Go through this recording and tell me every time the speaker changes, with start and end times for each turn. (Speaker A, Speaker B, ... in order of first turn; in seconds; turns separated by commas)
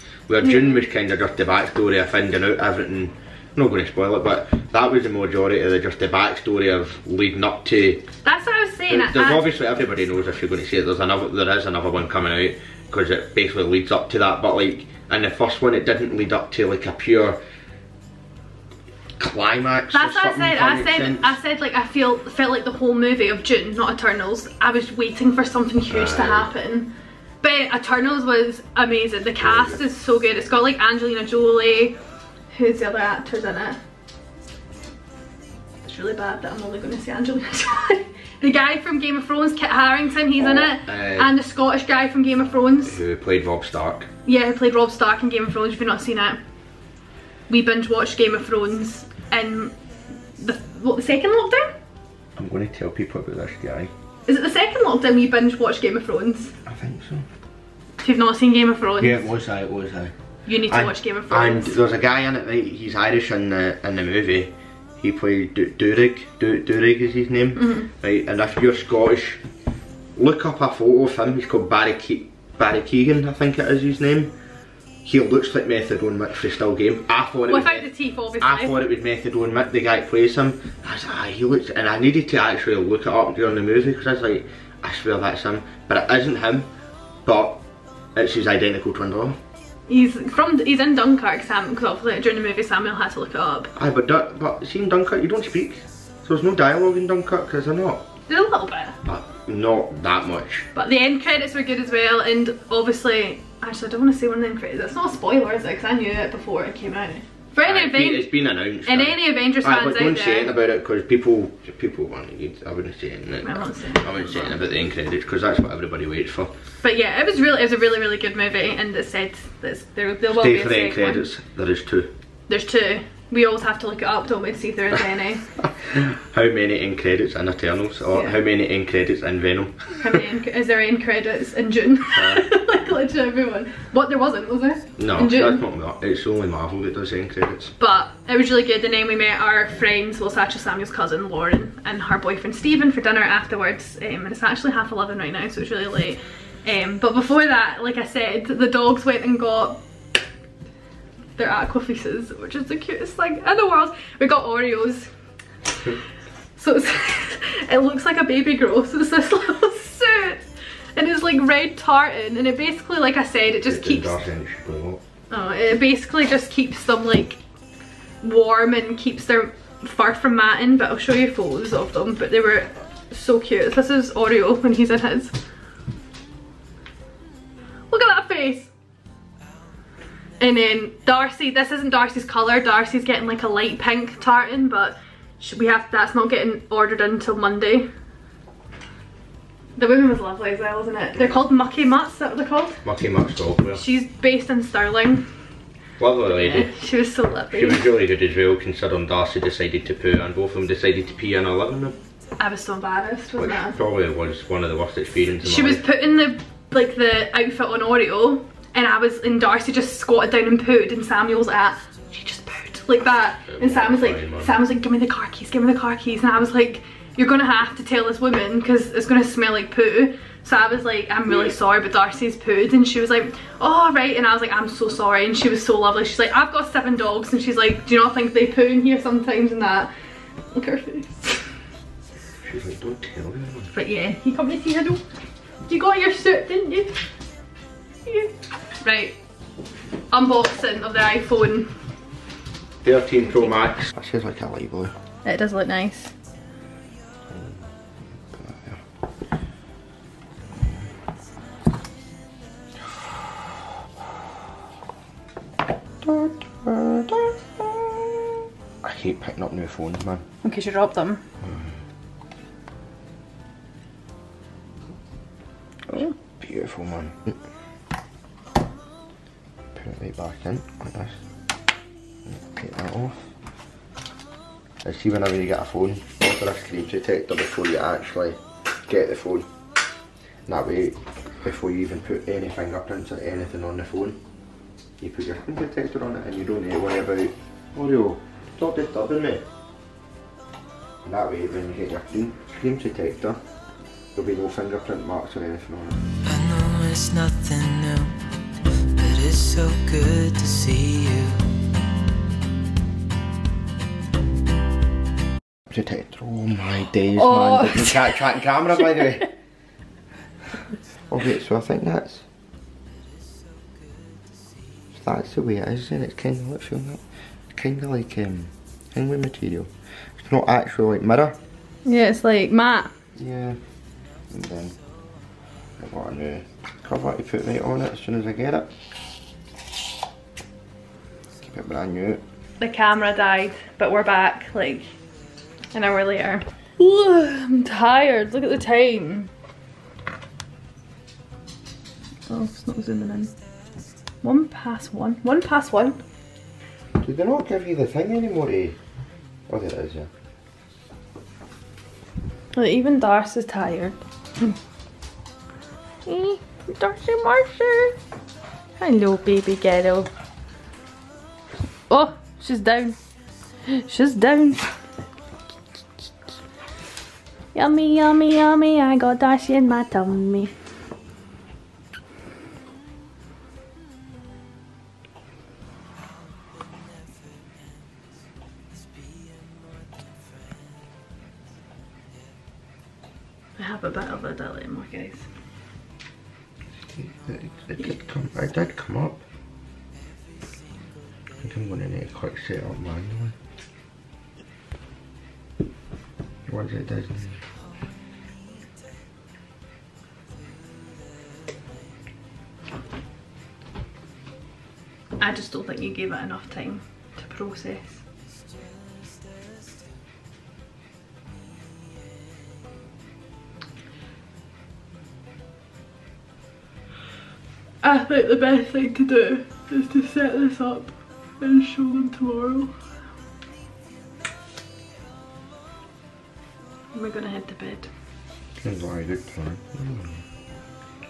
Speaker A: 0.3-8.1, Speaker B: 0.4-0.8, Speaker B: 8.2-9.5, Speaker A: 8.9-17.4, Speaker A: 19.2-21.4, Speaker B: 19.9-32.0, Speaker A: 25.9-26.5, Speaker A: 29.4-29.8, Speaker B: 32.5-33.8, Speaker B: 35.8-43.0, Speaker A: 40.4-41.3, Speaker A: 42.9-44.1, Speaker B: 44.3-46.4, Speaker B: 47.5-49.7, Speaker B: 50.4-51.7, Speaker A: 52.4-53.9, Speaker B: 54.3-56.5, Speaker A: 56.7-57.3, Speaker B: 58.0-59.2, Speaker A: 59.0-60.1, Speaker B: 60.5-61.8, Speaker A: 60.7-69.4, Speaker B: 67.6-67.9, Speaker A: 70.2-74.3, Speaker A: 75.0-77.9, Speaker B: 77.5-78.8, Speaker A: 78.4-86.7, Speaker A: 87.2-87.6, Speaker A: 88.2-89.4, Speaker B: 89.9-93.7, Speaker A: 93.8-98.1, Speaker B: 98.3-99.0, Speaker A: 99.0-100.7, Speaker B: 100.8-108.3, Speaker A: 107.6-116.5, Speaker B: 108.9-110.5, Speaker B: 113.4-114.6, Speaker B: 116.8-121.2, Speaker A: 120.3-122.1, Speaker B: 122.5-125.4, Speaker A: 125.6-130.0, Speaker B: 130.0-135.6, Speaker A: 132.1-132.4, Speaker A: 135.0-137.8, Speaker B: 137.8-149.8, Speaker B: 151.4-155.1, Speaker B: 156.6-164.2, Speaker A: 163.7-165.0, Speaker B: 165.3-167.4, Speaker B: 168.2-175.3, Speaker B: 177.9-178.7, Speaker B: 180.4-187.9, Speaker B: 189.8-192.8, Speaker A: 192.8-193.8, Speaker B: 193.7-195.3, Speaker A: 196.0-196.7, Speaker B: 196.3-197.9, Speaker A: 197.5-202.0, Speaker B: 202.4-203.8, Speaker A: 203.4-205.8, Speaker B: 205.4-229.9, Speaker A: 213.4-214.6, Speaker B: 230.5-231.4, Speaker A: 232.4-233.7, Speaker B: 233.7-235.0, Speaker B: 235.7-237.0, Speaker B: 238.1-239.2, Speaker B: 240.1-241.7, Speaker A: 242.8-244.9, Speaker B: 245.2-246.1, Speaker A: 247.3-247.6, Speaker A: 248.3-248.8, Speaker A: 256.0-260.2, Speaker B: 260.4-261.2, Speaker A: 261.4-261.7, Speaker A: 266.4-267.4, Speaker A: 269.8-271.2, Speaker A: 272.3-273.3, Speaker A: 274.8-279.5, Speaker A: 280.5-284.2, Speaker A: 285.0-289.4, Speaker A: 291.1-293.4, Speaker A: 294.1-296.0, Speaker C: 296.2-298.2, Speaker C: 298.8-301.5, Speaker A: 305.7-309.3, Speaker B: 307.1-308.2, Speaker A: 311.1-312.2, Speaker A: 315.0-317.0, Speaker A: 317.5-321.4, Speaker B: 321.9-322.9, Speaker A: 323.2-323.6, Speaker A: 324.3-324.8, Speaker A: 325.8-328.7, Speaker A: 331.5-332.2, Speaker B: 332.6-334.9, Speaker B: 335.7-339.3, Speaker B: 342.3-343.3, Speaker B: 344.2-346.0, Speaker A: 347.0-348.8, Speaker A: 349.5-350.1, Speaker B: 352.6-354.0, Speaker B: 356.1-358.0, Speaker B: 358.8-360.1, Speaker B: 361.9-363.0, Speaker B: 363.7-364.8, Speaker B: 367.5-370.5, Speaker B: 383.6-385.3, Speaker A: 386.9-389.2, Speaker A: 391.4-393.4, Speaker A: 396.5-397.4, Speaker B: 405.2-408.0, Speaker B: 417.8-422.7, Speaker B: 426.9-427.9, Speaker A: 428.6-430.2